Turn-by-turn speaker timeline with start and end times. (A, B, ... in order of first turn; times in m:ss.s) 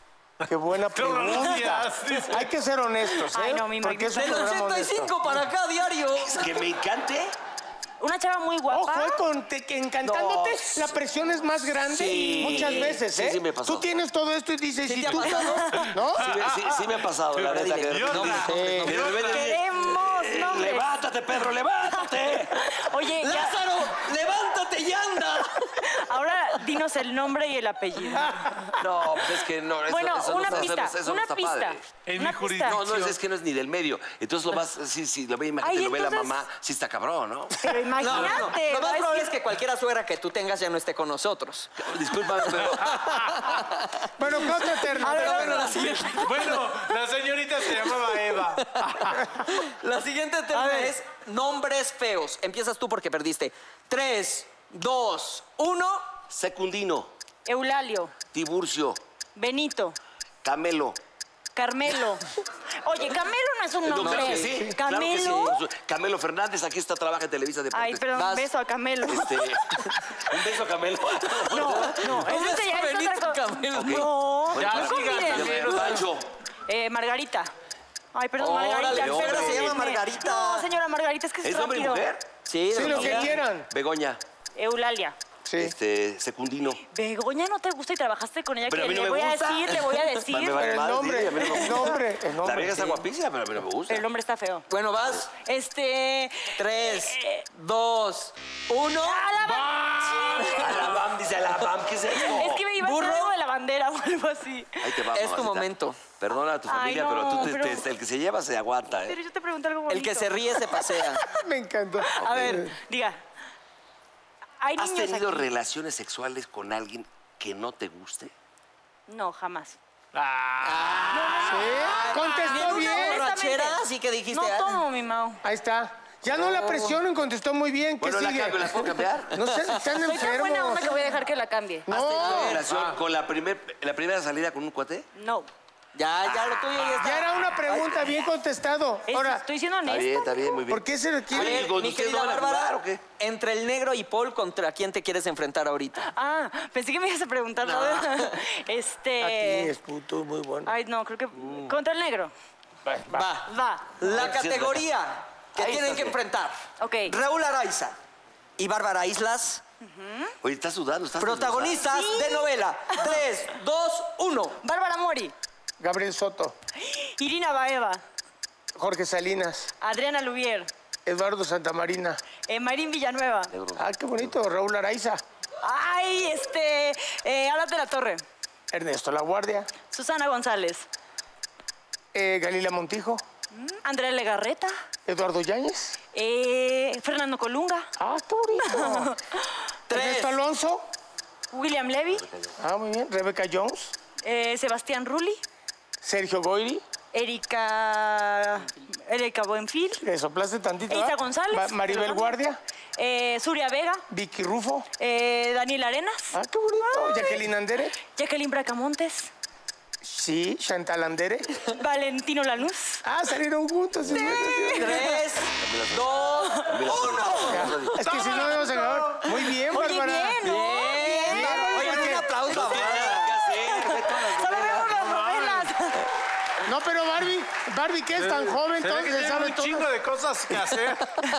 0:00.5-0:05.2 A
0:00.9-0:02.5 B
0:03.3-0:04.6 C
0:04.1-0:06.6 D
0:06.2-0:07.3 E
0:08.0-0:09.2 C
0:08.7-0:16.4 A
0:10.0-0:10.8 E
0:11.8-0:13.9 E
0:12.4-0:13.0 D
0:14.8-0:15.8 D
0:15.2-0:15.9 C
0:15.7-0:19.6 B
0:16.2-0:22.6 E
0:17.4-0:19.2 D
0:18.5-0:19.0 A
0:19.2-0:20.9 C
0:21.9-0:23.7 C
0:23.2-0:25.8 D
0:25.8-0:28.4 C
0:28.8-0:31.8 E
0:29.9-0:32.8 C
0:32.0-0:33.2 B
0:32.6-0:38.4 E
0:35.6-0:36.4 C
0:37.6-0:39.3 C
0:38.0-0:46.8 D
0:41.8-0:43.0 E
0:42.7-0:43.6 B
0:44.2-0:45.8 A
0:45.0-0:46.2 C
0:45.9-0:49.3 B
0:48.6-0:56.1 D
0:50.5-0:51.0 C
0:56.3-0:57.1 E
0:57.5-0:58.2 C
0:58.3-0:59.0 E
0:59.4-1:00.0 C
1:00.4-1:01.0 E
1:01.6-1:02.2 C
1:02.8-1:05.6 C
1:03.8-1:08.0 E
1:03.9-1:04.7 D
1:05.3-1:05.5 D
1:07.7-1:09.5 C
1:08.2-1:08.5 D
1:09.0-1:12.1 E
1:11.2-1:14.1 D
1:11.4-1:15.9 C
1:13.7-1:16.3 E
1:14.6-1:16.1 B
1:14.8-1:15.7 D
1:16.7-1:17.5 C
1:18.1-1:22.1 C
1:18.4-1:20.7 D
1:18.9-1:19.8 E
1:21.4-1:24.2 E
1:22.5-1:23.4 D
1:22.7-1:23.7 A
1:24.6-1:25.2 C
1:25.5-1:25.7 A
1:25.6-1:26.8 E
1:26.9-1:30.8 C
1:28.7-1:34.0 E
1:30.6-1:33.0 A
1:33.9-1:34.6 C
1:34.7-1:35.3 D
1:35.3-1:37.4 C
1:36.6-1:39.3 D
1:39.0-1:41.0 C
1:40.6-1:42.7 E
1:42.2-1:44.9 C
1:42.2-1:43.3 D
1:44.8-1:49.2 E
1:45.1-1:46.0 D
1:46.6-1:47.9 C
1:49.0-1:50.9 C
1:49.9-1:51.2 D
1:51.2-1:52.7 A
1:52.1-1:53.2 C
1:52.2-1:52.6 E
1:54.6-1:55.5 C
1:54.8-1:58.3 E
1:59.1-1:59.8 C
2:00.1-2:01.4 B
2:00.6-2:04.8 D
2:01.1-2:05.4 C
2:01.5-2:03.2 A
2:05.4-2:10.9 A
2:06.3-2:07.0 D
2:08.0-2:09.4 E
2:10.0-2:11.9 C
2:11.9-2:12.7 A
2:11.9-2:12.6 D
2:12.1-2:15.1 E
2:12.7-2:13.0 B
2:15.2-2:15.5 C
2:16.0-2:18.2 D
2:17.0-2:19.4 A
2:19.1-2:20.6 C
2:19.9-2:23.0 E
2:20.7-2:21.7 A
2:21.3-2:26.1 D
2:26.0-2:29.7 C
2:27.6-2:28.4 D
2:29.2-2:30.7 A
2:30.7-2:32.3 C
2:31.4-2:31.7 B
2:32.8-2:33.3 A
2:33.1-2:38.0 D
2:33.4-2:34.0 C
2:34.0-2:34.9 E
2:35.6-2:36.2 E
2:36.8-2:37.2 C
2:38.6-2:39.6 D
2:39.8-2:40.3 C
2:40.4-2:41.8 E
2:41.2-2:44.6 D
2:41.8-2:43.2 C
2:44.6-2:45.3 C
2:45.8-2:46.5 A
2:46.8-2:48.0 C
2:48.8-2:49.7 A
2:49.8-2:50.7 C
2:51.1-2:52.2 A
2:52.4-2:53.6 C
2:53.5-2:53.9 E
2:53.8-2:55.2 A
2:55.6-2:58.2 C
2:58.7-2:59.7 A
2:59.8-3:00.9 C
3:02.1-3:03.2 A
3:03.5-3:04.7 C
3:05.1-3:06.0 A
3:06.1-3:07.9 C
3:08.0-3:09.1 A
3:08.6-3:09.5 C
3:09.9-3:10.4 D
3:09.9-3:10.8 A
3:11.5-3:12.3 C
3:12.2-3:12.5 E
3:12.6-3:13.9 A
3:14.2-3:15.4 C
3:16.0-3:16.8 A
3:17.1-3:20.0 C
3:20.0-3:22.6 A
3:20.9-3:22.4 C
3:23.0-3:24.0 C
3:24.1-3:24.9 A
3:25.0-3:27.4 C
3:26.3-3:28.0 A
3:28.0-3:29.3 C
3:30.0-3:31.6 A
3:31.6-3:33.0 C
3:33.0-3:35.0 A
3:34.1-3:35.2 C
3:34.1-3:34.4 E
3:34.8-3:37.8 D
3:35.4-3:38.2 E
3:36.4-3:36.8 C
3:37.5-3:40.4 A
3:38.0-3:39.3 B
3:38.2-3:38.6 C
3:39.7-3:42.3 C
3:40.4-3:43.4 D
3:41.3-3:42.3 A
3:41.8-3:42.1 B
3:42.4-3:44.8 E
3:43.5-3:46.1 C
3:44.5-3:45.8 B
3:46.6-3:49.9 A
3:48.2-3:51.2 B